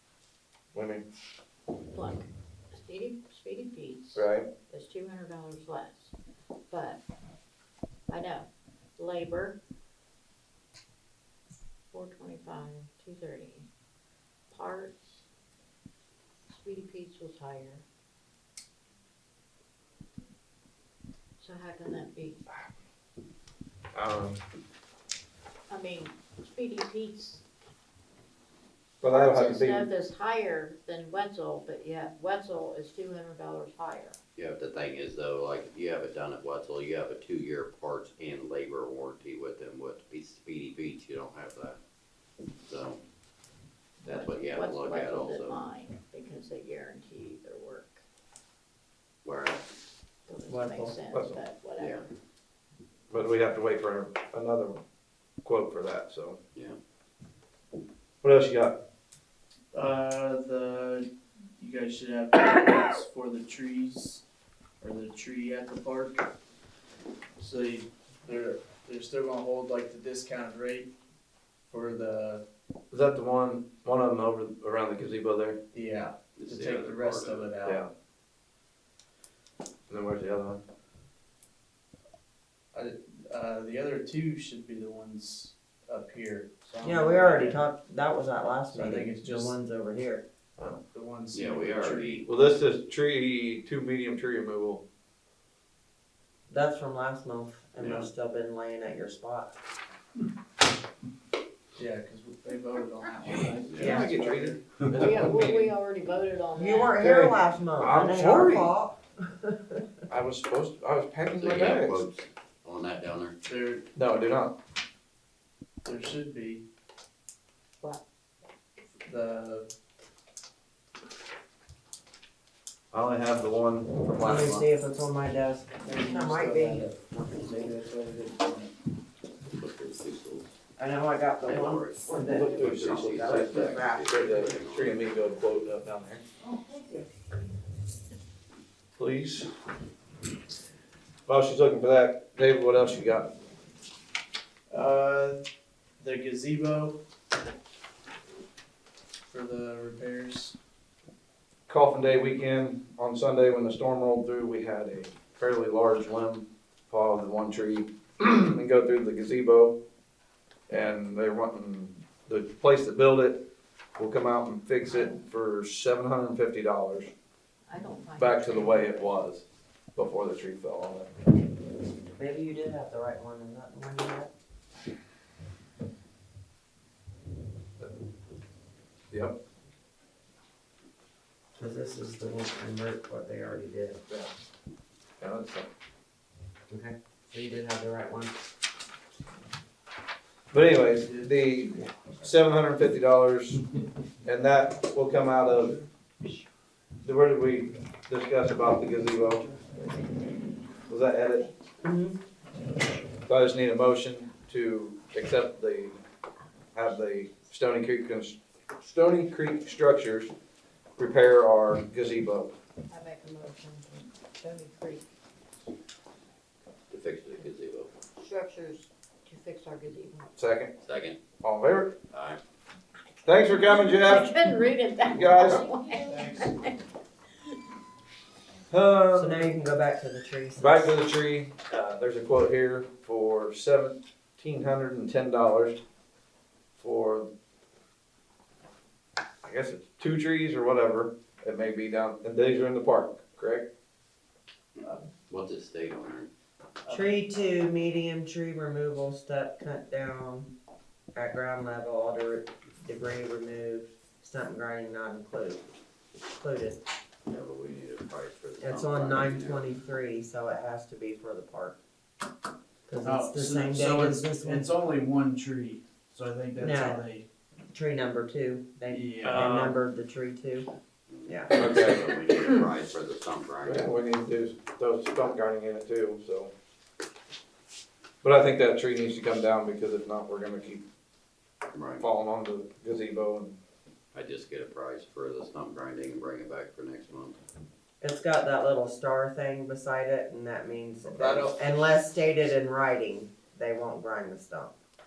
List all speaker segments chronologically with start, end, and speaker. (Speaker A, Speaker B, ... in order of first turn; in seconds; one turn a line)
Speaker A: 0.7-1.0
Speaker B: 1.9-6.2
Speaker A: 4.2-4.5
Speaker B: 6.7-7.0
Speaker B: 8.1-9.6
Speaker B: 11.9-13.7
Speaker B: 14.5-15.2
Speaker B: 16.5-17.8
Speaker B: 21.4-22.4
Speaker A: 23.9-24.4
Speaker B: 25.7-27.4
Speaker A: 29.0-29.9
Speaker B: 29.0-34.2
Speaker C: 34.4-41.8
Speaker C: 42.7-43.0
Speaker C: 44.0-45.6
Speaker B: 44.0-48.0
Speaker C: 49.2-49.7
Speaker B: 50.3-52.0
Speaker A: 51.1-51.4
Speaker C: 51.8-52.1
Speaker A: 53.1-54.8
Speaker A: 55.4-56.4
Speaker A: 58.2-58.8
Speaker D: 59.7-61.1
Speaker D: 61.6-64.2
Speaker D: 64.8-66.3
Speaker D: 67.4-70.9
Speaker D: 71.7-72.5
Speaker A: 72.9-75.6
Speaker D: 75.7-77.8
Speaker C: 76.4-77.5
Speaker A: 77.7-77.9
Speaker A: 79.9-80.6
Speaker D: 82.7-87.6
Speaker E: 86.8-90.2
Speaker D: 88.7-89.5
Speaker D: 90.9-92.2
Speaker C: 91.3-92.3
Speaker A: 92.2-94.8
Speaker E: 96.5-99.5
Speaker D: 97.8-98.1
Speaker D: 101.8-104.8
Speaker A: 103.3-105.7
Speaker C: 103.7-104.1
Speaker E: 103.8-104.1
Speaker B: 104.9-107.0
Speaker E: 106.5-109.9
Speaker A: 107.0-108.7
Speaker A: 110.1-112.0
Speaker C: 111.3-113.4
Speaker D: 113.5-113.8
Speaker A: 114.0-114.6
Speaker D: 115.8-116.6
Speaker D: 119.0-119.7
Speaker A: 122.9-124.6
Speaker E: 124.2-127.7
Speaker D: 125.9-128.7
Speaker C: 129.5-130.5
Speaker E: 130.8-134.1
Speaker C: 131.4-135.1
Speaker A: 132.3-136.2
Speaker E: 136.5-137.0
Speaker A: 139.0-139.5
Speaker A: 141.3-143.3
Speaker D: 144.7-145.4
Speaker D: 146.0-147.0
Speaker D: 149.3-150.6
Speaker A: 151.7-159.8
Speaker A: 160.7-163.5
Speaker A: 164.0-167.1
Speaker B: 167.7-169.1
Speaker A: 168.2-171.1
Speaker E: 172.2-174.3
Speaker A: 179.1-179.4
Speaker E: 181.6-184.0
Speaker A: 184.1-184.3
Speaker A: 185.2-185.7
Speaker E: 186.7-188.3
Speaker A: 190.5-193.6
Speaker D: 191.0-191.3
Speaker A: 194.2-195.8
Speaker A: 197.0-199.5
Speaker A: 200.9-201.5
Speaker E: 201.8-202.2
Speaker A: 203.3-206.0
Speaker A: 206.8-210.3
Speaker A: 211.0-212.5
Speaker B: 212.9-215.1
Speaker C: 216.9-217.9
Speaker B: 218.2-220.3
Speaker A: 220.4-220.7
Speaker C: 220.8-221.2
Speaker A: 221.4-221.9
Speaker C: 222.1-222.4
Speaker A: 223.2-224.3
Speaker B: 223.4-226.8
Speaker A: 225.1-225.7
Speaker D: 226.1-226.5
Speaker A: 228.7-229.5
Speaker E: 229.2-231.0
Speaker A: 230.6-235.8
Speaker A: 236.8-237.3
Speaker A: 239.4-243.7
Speaker C: 245.3-246.3
Speaker D: 246.9-247.2
Speaker E: 246.9-250.5
Speaker E: 251.2-255.7
Speaker E: 256.4-256.8
Speaker C: 257.3-259.7
Speaker E: 258.6-261.8
Speaker E: 262.9-264.7
Speaker D: 263.0-267.3
Speaker E: 266.6-267.0
Speaker E: 267.7-270.7
Speaker D: 268.9-269.4
Speaker A: 269.2-269.8
Speaker C: 271.1-273.9
Speaker E: 271.2-271.6
Speaker A: 271.5-272.1
Speaker A: 273.6-276.5
Speaker A: 278.2-280.9
Speaker C: 281.7-282.0
Speaker A: 282.0-283.6
Speaker C: 284.1-287.4
Speaker E: 288.0-294.7
Speaker D: 291.1-291.9